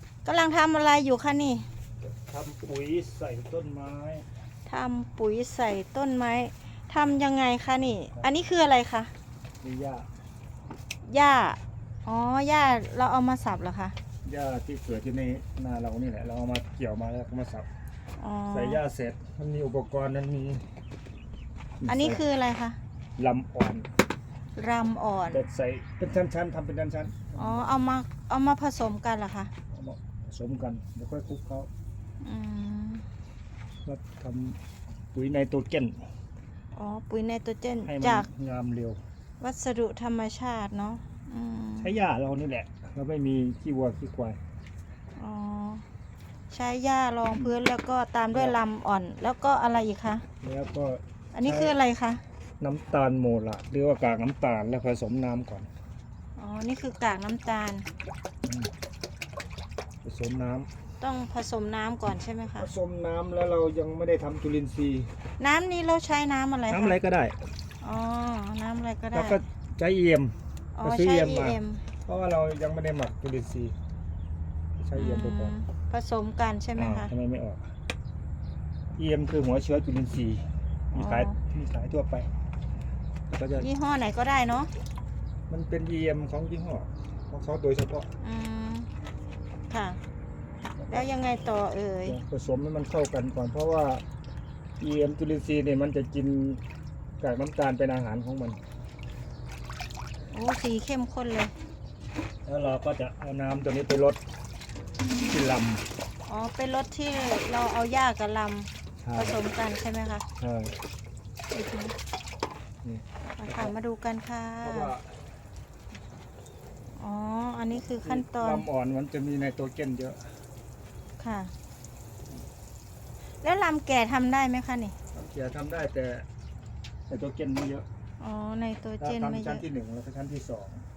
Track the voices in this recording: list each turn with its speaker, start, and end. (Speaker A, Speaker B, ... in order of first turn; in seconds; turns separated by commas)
Speaker A: 0.2-1.7, Speaker B: 2.3-4.3, Speaker A: 4.7-9.1, Speaker B: 9.6-10.1, Speaker A: 11.0-14.0, Speaker B: 14.2-17.7, Speaker A: 18.2-18.8, Speaker B: 18.5-20.7, Speaker B: 21.8-22.2, Speaker A: 21.9-22.8, Speaker B: 23.2-23.9, Speaker A: 24.6-25.4, Speaker B: 25.3-27.7, Speaker A: 27.4-29.5, Speaker B: 29.7-31.7, Speaker A: 32.2-33.0, Speaker B: 33.9-34.6, Speaker B: 35.1-36.1, Speaker A: 36.7-38.3, Speaker B: 37.8-39.0, Speaker A: 39.4-42.0, Speaker B: 41.8-44.4, Speaker A: 45.2-45.9, Speaker A: 46.5-50.3, Speaker B: 48.3-48.6, Speaker B: 50.4-51.8, Speaker A: 51.3-52.2, Speaker B: 52.6-55.7, Speaker A: 56.4-57.9, Speaker B: 58.4-58.7, Speaker B: 60.0-60.7, Speaker A: 61.0-62.7, Speaker B: 62.6-65.1, Speaker A: 65.4-67.0, Speaker B: 66.7-67.4, Speaker A: 67.8-69.4, Speaker B: 69.1-73.8, Speaker A: 70.8-71.8, Speaker B: 74.8-75.6, Speaker A: 75.0-77.1, Speaker B: 76.8-77.7, Speaker B: 79.0-82.3, Speaker A: 81.0-81.4, Speaker B: 83.3-83.7, Speaker A: 83.6-84.7, Speaker B: 85.5-88.1, Speaker A: 88.2-88.9, Speaker A: 89.7-90.0, Speaker B: 90.8-91.1, Speaker A: 90.9-92.2, Speaker B: 92.0-94.0, Speaker B: 94.8-96.6, Speaker B: 97.2-98.6, Speaker A: 100.3-101.5, Speaker B: 102.5-104.2, Speaker B: 105.2-105.9, Speaker A: 106.3-110.2, Speaker B: 109.0-109.4, Speaker B: 110.4-110.8, Speaker A: 111.5-111.9, Speaker B: 112.8-113.7, Speaker A: 113.3-114.9, Speaker B: 114.6-115.2, Speaker A: 117.0-118.7, Speaker B: 117.8-120.4, Speaker A: 121.2-121.5, Speaker A: 123.4-125.0, Speaker B: 125.1-126.3, Speaker B: 127.1-127.9, Speaker A: 128.2-129.7, Speaker B: 129.0-130.8